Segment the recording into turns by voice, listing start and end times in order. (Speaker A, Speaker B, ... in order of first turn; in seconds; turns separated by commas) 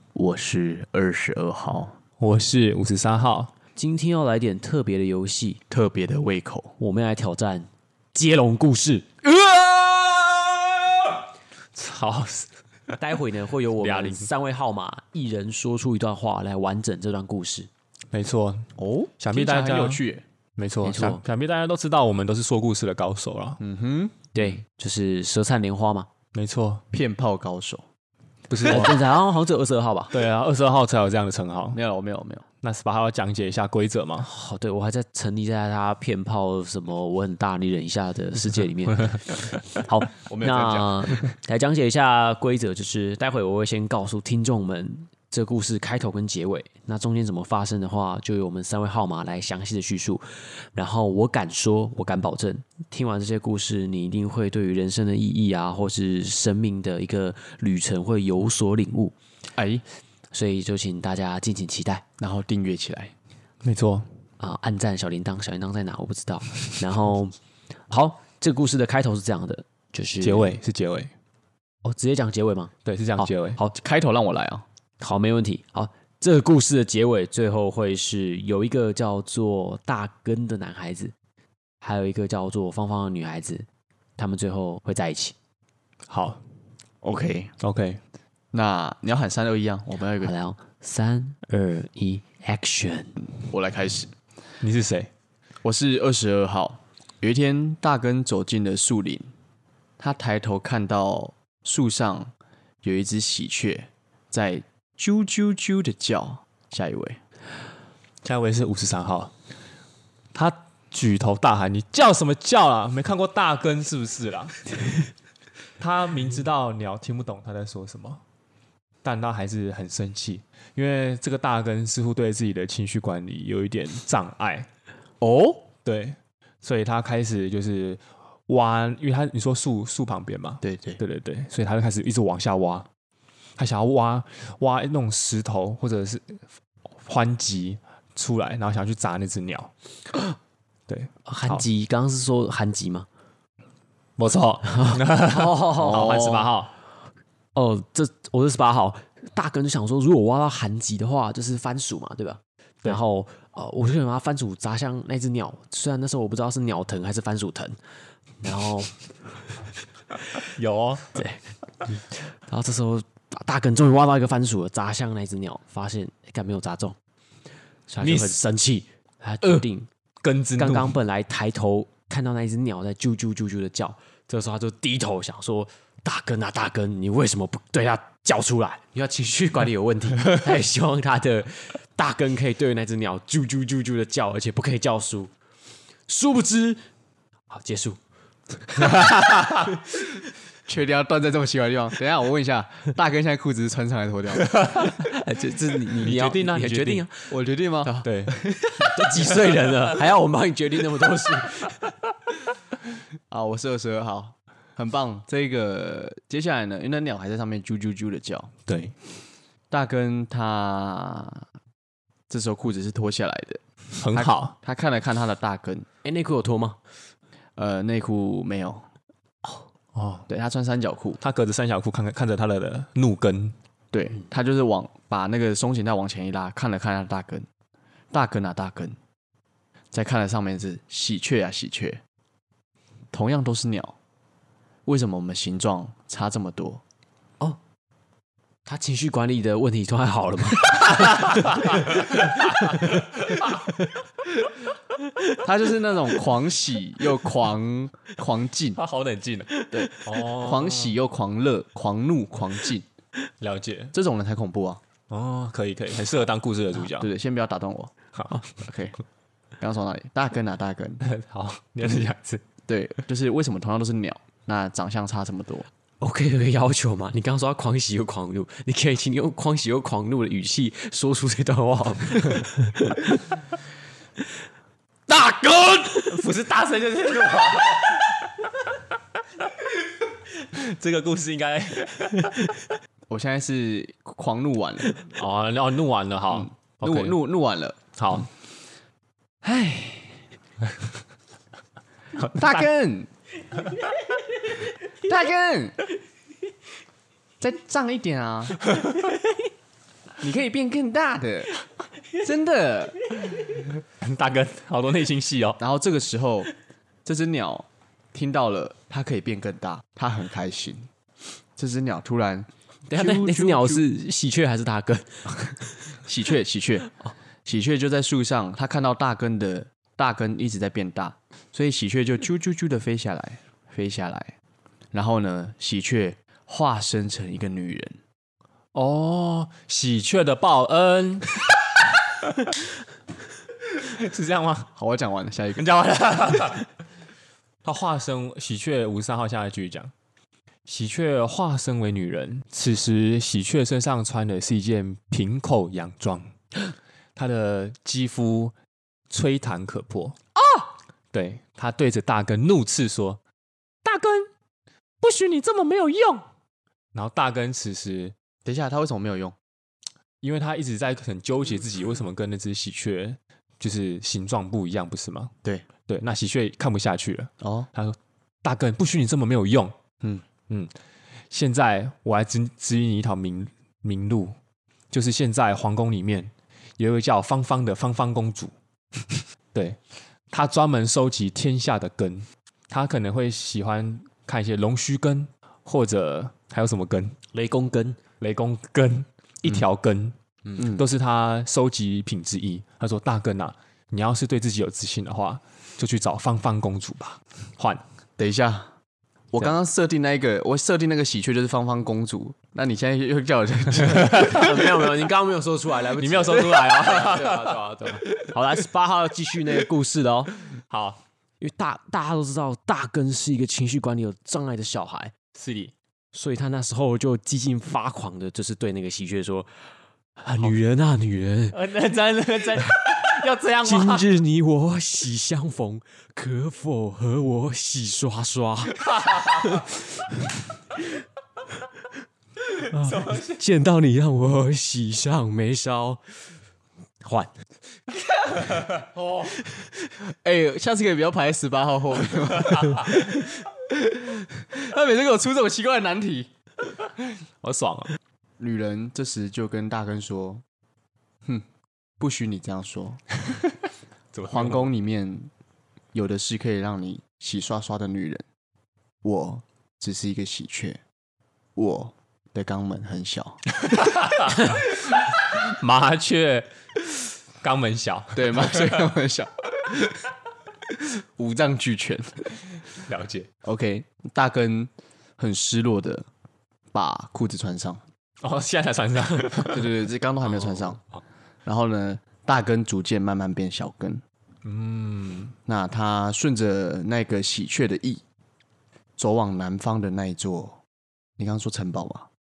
Speaker A: 0.1-1.9, Speaker B: 2.2-3.5, Speaker C: 3.7-5.6, Speaker A: 5.7-6.7, Speaker C: 6.8-9.1, Speaker A: 9.3-10.4, Speaker B: 11.7-12.9, Speaker C: 13.0-17.7, Speaker B: 13.8-14.3, Speaker B: 18.1-20.0, Speaker A: 18.8-20.2, Speaker B: 20.6-23.6, Speaker C: 20.8-21.2, Speaker A: 23.6-24.2, Speaker C: 24.3-26.1, Speaker B: 26.3-26.8, Speaker A: 26.9-27.8, Speaker B: 28.5-29.0, Speaker C: 28.6-30.1, Speaker B: 30.1-31.8, Speaker A: 31.7-32.4, Speaker B: 32.6-34.3, Speaker C: 34.2-59.1, Speaker A: 40.2-41.3, Speaker A: 59.5-59.8, Speaker C: 60.3-62.0, Speaker A: 62.2-63.1, Speaker B: 63.6-64.1, Speaker C: 64.4-67.3, Speaker C: 67.9-70.6, Speaker B: 70.2-71.1, Speaker C: 71.8-73.7, Speaker B: 72.8-73.6, Speaker A: 73.7-74.6, Speaker C: 75.0-81.1, Speaker C: 81.8-83.7, Speaker C: 84.2-85.3, Speaker B: 86.1-86.4, Speaker A: 87.0-87.5, Speaker B: 87.6-88.0, Speaker A: 88.5-90.3, Speaker C: 90.2-93.2, Speaker A: 93.5-94.1, Speaker B: 94.6-95.1, Speaker A: 95.6-99.3, Speaker A: 100.0-102.3, Speaker A: 102.8-107.2, Speaker B: 108.2-109.3, Speaker B: 110.3-114.7, Speaker B: 115.8-118.2, Speaker B: 119.0-124.7, Speaker A: 125.2-125.7, Speaker B: 125.8-132.9, Speaker A: 130.6-131.0, Speaker B: 133.6-136.4, Speaker B: 137.0-139.7, Speaker B: 140.9-141.7, Speaker C: 141.2-143.1, Speaker B: 144.2-146.7, Speaker C: 144.8-146.5, Speaker C: 147.5-157.8, Speaker C: 158.4-159.6, Speaker B: 160.5-161.2, Speaker C: 161.1-167.0, Speaker C: 167.9-169.9, Speaker B: 168.0-168.3, Speaker B: 170.2-170.9, Speaker C: 170.6-185.3, Speaker C: 186.1-186.8, Speaker C: 187.5-188.0, Speaker C: 188.7-189.1, Speaker B: 189.1-189.4, Speaker A: 190.7-194.5, Speaker B: 194.4-194.9, Speaker C: 194.7-201.9, Speaker B: 196.0-197.1, Speaker A: 197.3-199.4, Speaker B: 198.0-198.3, Speaker A: 203.3-208.5, Speaker B: 208.7-208.9, Speaker A: 209.7-211.4, Speaker A: 212.3-213.6, Speaker B: 214.0-214.6, Speaker A: 214.1-215.9, Speaker C: 216.0-216.8, Speaker A: 217.6-218.8, Speaker B: 219.9-220.3, Speaker A: 220.3-221.2, Speaker B: 221.2-223.5, Speaker A: 223.9-227.5, Speaker A: 228.1-228.9, Speaker A: 229.9-232.0, Speaker A: 233.1-233.9, Speaker A: 234.8-236.8, Speaker C: 238.6-241.1, Speaker B: 240.9-243.5, Speaker C: 242.0-243.0, Speaker A: 245.4-248.8, Speaker B: 248.8-250.9, Speaker A: 249.7-252.8, Speaker B: 253.4-253.9, Speaker A: 253.9-254.8, Speaker B: 255.1-257.1, Speaker A: 257.0-257.9, Speaker B: 258.1-258.4, Speaker A: 258.5-258.9, Speaker A: 259.6-261.0, Speaker B: 261.0-262.4, Speaker A: 262.7-265.7, Speaker C: 266.0-273.2, Speaker C: 275.1-276.2, Speaker B: 276.0-278.3, Speaker B: 280.4-282.4, Speaker A: 283.1-284.9, Speaker B: 285.0-287.1, Speaker A: 286.3-287.8, Speaker B: 288.0-288.3, Speaker A: 289.4-290.2, Speaker A: 292.2-293.1, Speaker A: 295.0-295.8, Speaker A: 297.4-298.8, Speaker A: 300.2-301.6, Speaker A: 302.1-303.2, Speaker B: 303.9-305.6, Speaker A: 305.6-306.5, Speaker A: 307.0-310.9, Speaker A: 311.6-313.8, Speaker C: 312.9-315.9, Speaker A: 316.0-316.9, Speaker A: 317.4-324.3, Speaker A: 324.9-328.0, Speaker B: 328.7-331.4, Speaker B: 333.8-334.7, Speaker A: 334.8-335.6, Speaker B: 335.6-336.6, Speaker B: 337.6-339.9, Speaker B: 340.7-346.3, Speaker B: 347.1-348.5, Speaker B: 349.1-350.2, Speaker B: 351.1-353.2, Speaker B: 353.8-354.3, Speaker B: 355.0-356.2, Speaker B: 356.9-358.1, Speaker A: 358.4-359.3, Speaker B: 360.2-365.3, Speaker B: 365.9-369.7, Speaker A: 367.4-367.7, Speaker B: 371.3-374.3, Speaker B: 374.9-378.5, Speaker B: 379.1-379.8, Speaker B: 380.3-387.1, Speaker C: 387.3-388.0, Speaker B: 388.2-397.8, Speaker A: 390.6-390.8, Speaker A: 398.2-398.7, Speaker A: 399.3-404.6, Speaker C: 404.1-410.3, Speaker B: 406.0-408.0, Speaker B: 410.6-411.0, Speaker C: 411.4-415.1, Speaker B: 415.4-415.7, Speaker C: 416.1-419.5, Speaker C: 420.2-421.6, Speaker B: 421.5-424.1, Speaker C: 423.6-430.1, Speaker B: 428.9-429.3, Speaker C: 432.7-436.1, Speaker B: 432.7-433.4, Speaker C: 437.0-437.3, Speaker A: 440.0-446.3, Speaker B: 447.4-447.9, Speaker A: 448.4-450.4, Speaker A: 452.0-453.0, Speaker B: 454.1-454.7, Speaker A: 454.3-455.3, Speaker A: 455.9-458.2, Speaker A: 459.0-460.8, Speaker A: 461.6-463.4, Speaker B: 463.7-466.5, Speaker B: 467.4-468.9, Speaker A: 468.1-470.1, Speaker A: 471.1-472.3, Speaker B: 472.8-473.3, Speaker A: 473.4-476.1, Speaker A: 476.7-477.8, Speaker B: 478.2-479.7, Speaker A: 479.5-480.8, Speaker A: 481.4-484.0, Speaker B: 484.4-485.3, Speaker A: 485.4-488.0, Speaker A: 489.0-490.6, Speaker A: 491.2-492.1